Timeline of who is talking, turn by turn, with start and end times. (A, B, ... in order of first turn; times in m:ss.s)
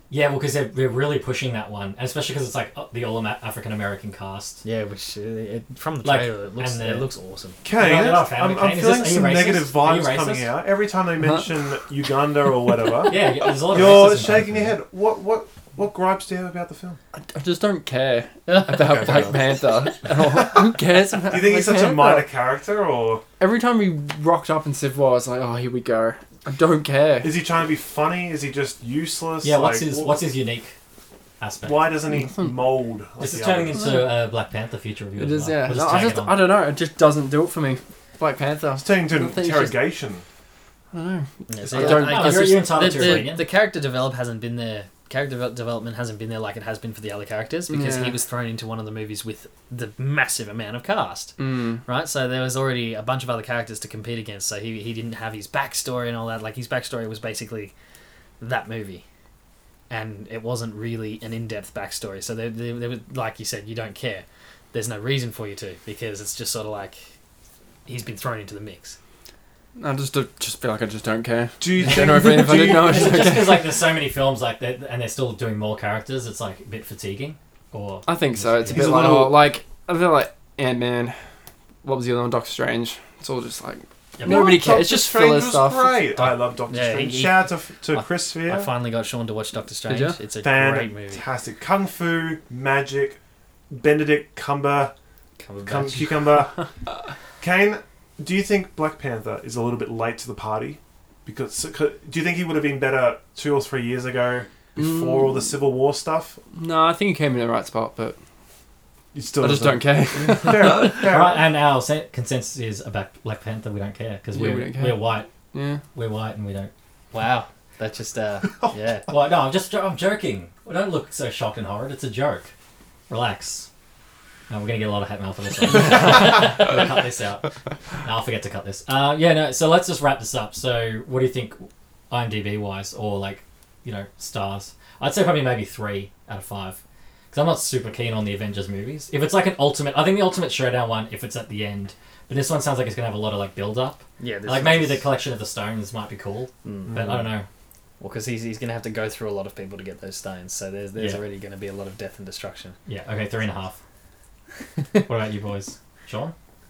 0:00.1-0:04.6 A
0:04.6-0:07.6 B
0:06.0-0:07.1 A
0:07.6-0:17.0 C
0:07.7-0:10.5 A
0:11.2-0:11.6 D
0:13.0-0:14.8 A
0:17.1-0:22.3 D
0:18.5-0:19.5 B
0:18.7-0:23.2 C
0:23.4-0:27.3 D
0:27.2-0:30.2 C
0:29.4-0:30.8 A
0:31.4-0:31.9 A
0:31.6-0:34.0 C
0:32.1-0:32.7 D
0:33.2-0:36.4 A
0:33.7-0:34.1 D
0:35.2-0:39.8 D
0:38.8-0:40.2 C
0:40.9-0:43.3 D
0:41.5-0:57.7 B
0:41.7-0:43.5 A
0:47.7-0:48.2 D
0:51.4-0:51.8 D
0:58.4-0:59.0 B
0:59.9-1:07.0 B
1:07.9-1:09.0 B
1:09.8-1:13.7 D
1:11.6-1:13.3 C
1:11.8-1:19.0 A
1:18.1-1:21.2 D
1:18.7-1:19.4 C
1:21.8-1:26.0 D
1:24.2-1:24.6 A
1:24.2-1:28.7 C
1:26.7-1:31.2 B
1:29.9-1:30.2 D
1:30.4-1:33.2 C
1:33.7-1:34.9 C
1:35.4-1:36.4 B
1:35.6-1:36.7 C
1:37.4-1:46.4 C
1:44.8-1:45.5 D
1:46.5-1:48.2 D
1:49.1-1:51.5 C
1:49.4-1:51.1 D
1:51.0-1:55.3 A
1:54.3-1:55.8 D
1:55.9-1:56.7 A
1:57.1-1:59.1 B
1:59.1-2:02.5 A
2:03.1-2:03.7 A
2:04.5-2:16.8 A
2:17.3-2:27.5 A
2:24.2-2:25.0 B
2:26.6-2:27.0 B
2:26.9-2:27.3 C
2:28.0-2:32.8 B
2:32.9-2:33.8 A
2:35.0-2:36.4 A